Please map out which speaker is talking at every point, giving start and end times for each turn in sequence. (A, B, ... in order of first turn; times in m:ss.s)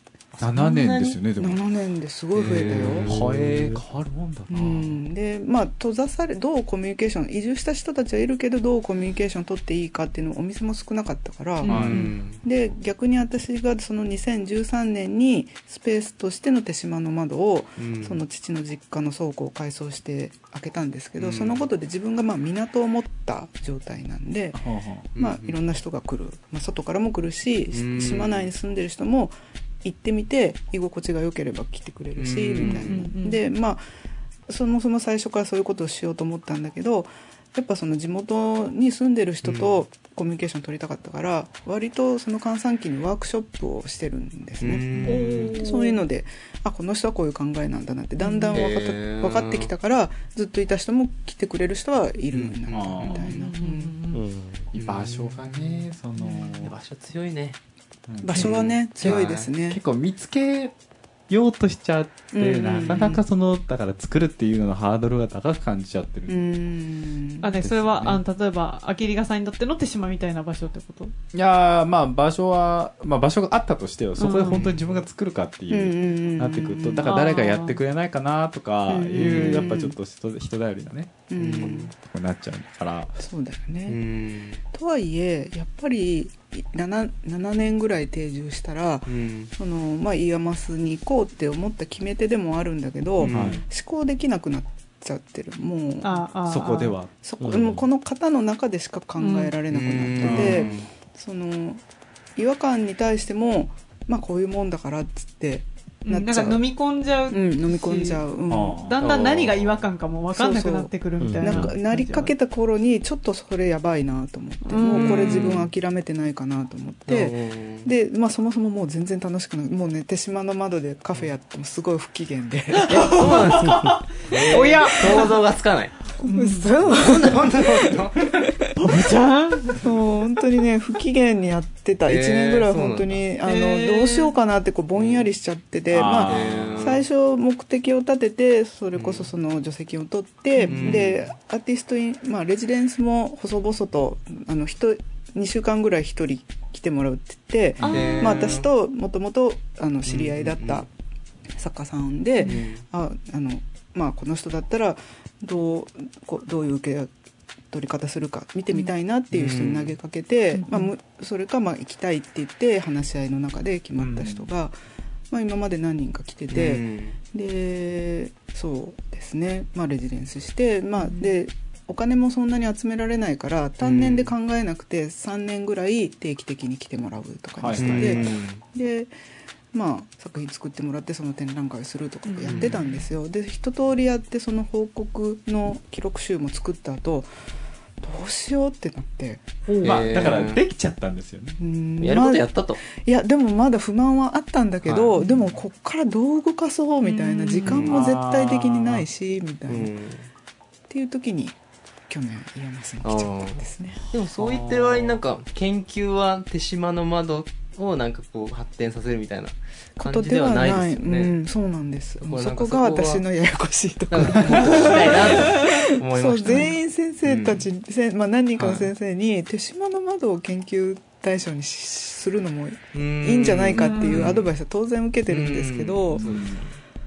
0:00.4-0:01.6 A
0:00.5-0:01.2 B
0:01.4-0:03.1 C
0:02.3-0:03.5 B
0:02.9-0:05.0 A
0:03.1-0:03.8 D
0:04.5-0:24.6 C
0:11.6-0:12.2 E
0:11.6-0:12.1 A
0:11.6-0:12.4 B
0:17.8-0:18.2 B
0:21.2-0:21.7 B
0:24.5-0:25.1 A
0:25.1-0:33.8 C
0:25.2-0:25.6 B
0:27.7-0:28.5 B
0:32.2-0:33.1 B
0:32.6-0:33.4 E
0:34.5-0:54.0 C
0:39.4-0:39.8 B
0:44.6-0:45.5 B
0:45.0-0:46.0 E
0:48.2-0:48.6 E
0:48.5-0:49.7 B
0:52.3-0:52.8 B
0:52.7-0:53.3 A
0:53.0-0:54.2 E
0:54.1-0:54.7 D
0:54.7-0:56.7 A
0:54.8-0:55.5 B
0:56.6-0:57.6 B
0:58.1-1:00.7 A
0:58.2-0:59.8 C
0:58.3-0:59.5 B
1:01.3-1:06.4 A
1:02.3-1:03.2 C
1:06.3-1:07.5 C
1:07.4-1:11.1 E
1:07.6-1:08.2 A
1:11.3-1:21.2 A
1:14.2-1:14.8 E
1:15.7-1:17.1 C
1:17.0-1:17.8 E
1:18.9-1:20.0 C
1:19.2-1:19.7 B
1:21.3-1:21.9 C
1:21.4-1:21.9 B
1:22.0-1:23.2 A
1:23.2-1:24.0 C
1:23.9-1:24.6 B
1:24.7-1:36.2 C
1:29.1-1:29.5 B
1:33.2-1:33.6 B
1:33.3-1:33.6 A
1:36.0-1:37.0 E
1:36.4-1:37.2 A
1:37.2-1:41.8 C
1:37.4-1:37.8 D
1:39.2-1:39.5 E
1:39.7-1:40.8 B
1:40.2-1:40.9 A
1:42.4-1:46.6 C
1:46.0-1:48.2 E
1:47.3-1:48.9 C
1:48.5-1:49.0 A
1:48.8-1:52.3 E
1:49.0-1:49.8 B
1:50.3-2:03.4 C
1:51.2-1:51.7 D
1:54.6-1:55.7 E
1:54.9-1:55.7 B
1:57.1-1:57.9 B
2:02.7-2:05.3 E
2:02.9-2:06.0 B
2:06.2-2:06.7 E
2:06.2-2:07.9 C
2:06.9-2:08.3 B
2:08.8-2:09.9 E
2:09.8-2:30.9 C
2:12.0-2:13.2 B
2:13.4-2:14.3 E
2:15.0-2:15.2 B
2:15.9-2:17.0 A
2:16.2-2:17.0 B
2:18.9-2:19.3 B
2:20.6-2:21.1 E
2:20.6-2:21.2 B
2:27.8-2:28.1 A
2:27.8-2:28.5 E
2:27.9-2:28.7 B
2:30.0-2:30.8 B
2:31.6-2:37.1 C
2:32.4-2:32.8 B
2:37.7-2:44.7 C
2:39.3-2:40.0 B
2:40.5-2:40.9 E
2:44.0-2:44.5 A
2:45.3-2:59.1 C
2:46.5-2:47.2 B
2:51.0-2:51.3 E
2:53.8-2:54.3 B
2:57.6-2:58.4 A
2:57.7-2:58.6 B
2:59.7-3:07.3 C
3:02.2-3:03.0 E
3:02.4-3:02.7 B
3:08.0-3:10.3 C
3:09.7-3:11.6 A
3:09.8-3:10.6 B
3:11.6-3:19.9 C
3:12.0-3:12.8 B
3:14.8-3:15.1 B
3:17.0-3:17.7 E
3:17.6-3:18.0 B
3:17.7-3:19.0 A
3:19.7-3:20.3 B
3:20.9-3:21.6 C
3:22.1-3:24.0 C
3:23.0-3:31.3 B
3:24.4-3:25.2 A
3:30.0-3:46.3 C
3:32.2-3:33.2 B
3:34.1-3:37.6 B
3:34.6-3:35.8 E
3:38.6-3:38.9 B
3:42.9-3:44.5 B
3:43.7-3:44.4 E
3:45.3-3:46.7 B
3:46.1-3:46.6 A